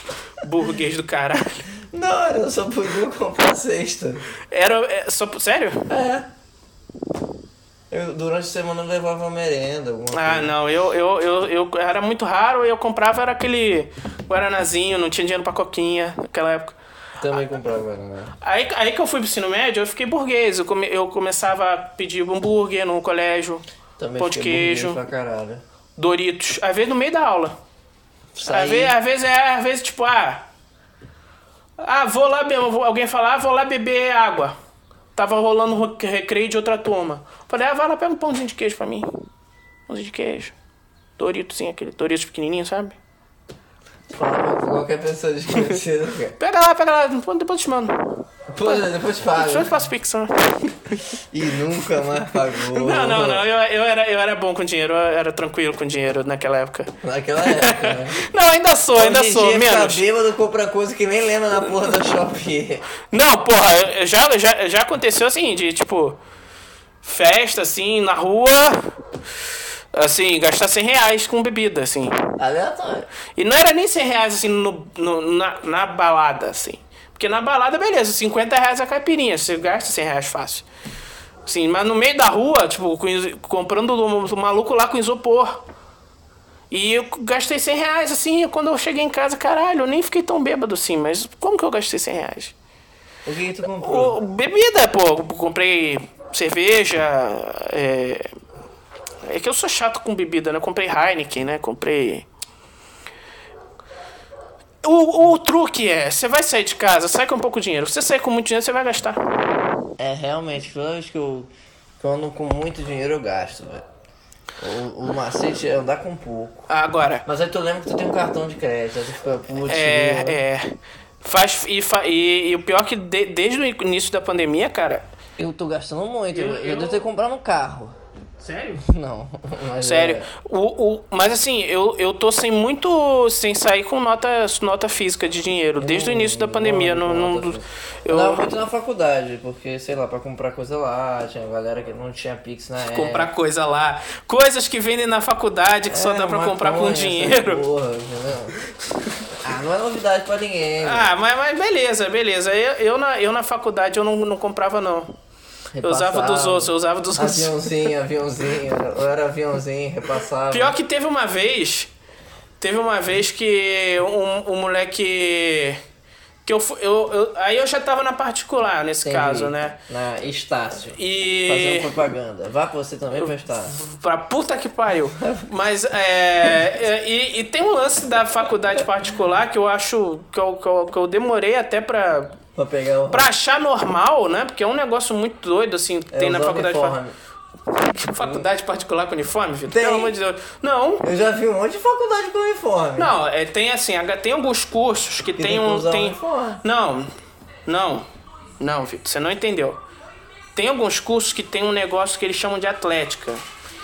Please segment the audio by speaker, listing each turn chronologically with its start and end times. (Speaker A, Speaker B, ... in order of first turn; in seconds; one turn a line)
Speaker A: 0.4-1.6
Speaker B: 1.9-4.2
Speaker A: 4.5-5.9
Speaker B: 5.9-6.3
Speaker B: 7.9-10.5
Speaker A: 10.1-16.8
Speaker B: 17.2-18.3
Speaker A: 18.4-23.6
Speaker B: 24.0-25.6
Speaker A: 24.2-25.0
Speaker A: 26.0-27.6
Speaker B: 28.3-28.9
Speaker A: 28.4-30.5
Speaker A: 31.8-34.5
Speaker A: 35.1-39.1
Speaker A: 39.9-40.5
Speaker A: 41.2-43.0
Speaker B: 44.1-46.4
Speaker A: 46.4-48.8
Speaker B: 48.5-49.7
Speaker A: 49.3-51.0
Speaker B: 51.3-53.4
Speaker A: 52.7-60.0
Speaker B: 57.0-58.2
Speaker B: 59.0-62.9
Speaker A: 63.1-66.2
Speaker A: 67.0-68.9
Speaker A: 69.9-72.3
Speaker B: 72.4-73.1
Speaker A: 73.3-80.7
Speaker A: 81.5-85.6
Speaker A: 86.7-92.5
Speaker B: 93.2-94.2
Speaker A: 93.8-98.3
Speaker A: 99.2-102.2
Speaker A: 104.8-109.3
Speaker B: 110.0-113.8
Speaker B: 114.6-116.7
Speaker A: 116.7-117.2
Speaker B: 117.2-120.4
Speaker A: 119.7-125.0
Speaker B: 125.4-128.0
Speaker A: 126.3-127.0
Speaker A: 128.4-128.8
Speaker B: 128.8-130.3
Speaker A: 129.8-138.5
Speaker B: 135.8-143.3
Speaker A: 142.8-147.6
Speaker B: 145.9-148.6
Speaker B: 149.4-151.1
Speaker A: 150.8-155.1
Speaker B: 155.7-160.8
Speaker A: 155.8-157.5
Speaker A: 160.5-161.9
Speaker A: 162.6-165.8
Speaker A: 166.4-169.8
Speaker B: 169.0-173.8
Speaker A: 170.9-171.9
Speaker A: 173.2-182.4
Speaker B: 175.2-175.5
Speaker B: 182.5-183.3
Speaker A: 183.1-186.9
Speaker B: 186.1-187.1
Speaker A: 187.9-191.1
Speaker B: 188.2-188.4
Speaker B: 189.7-190.2
Speaker B: 191.0-193.1
Speaker A: 193.0-197.1
Speaker B: 195.3-196.6
Speaker A: 197.7-198.1
Speaker A: 198.6-199.8
Speaker A: 200.5-203.4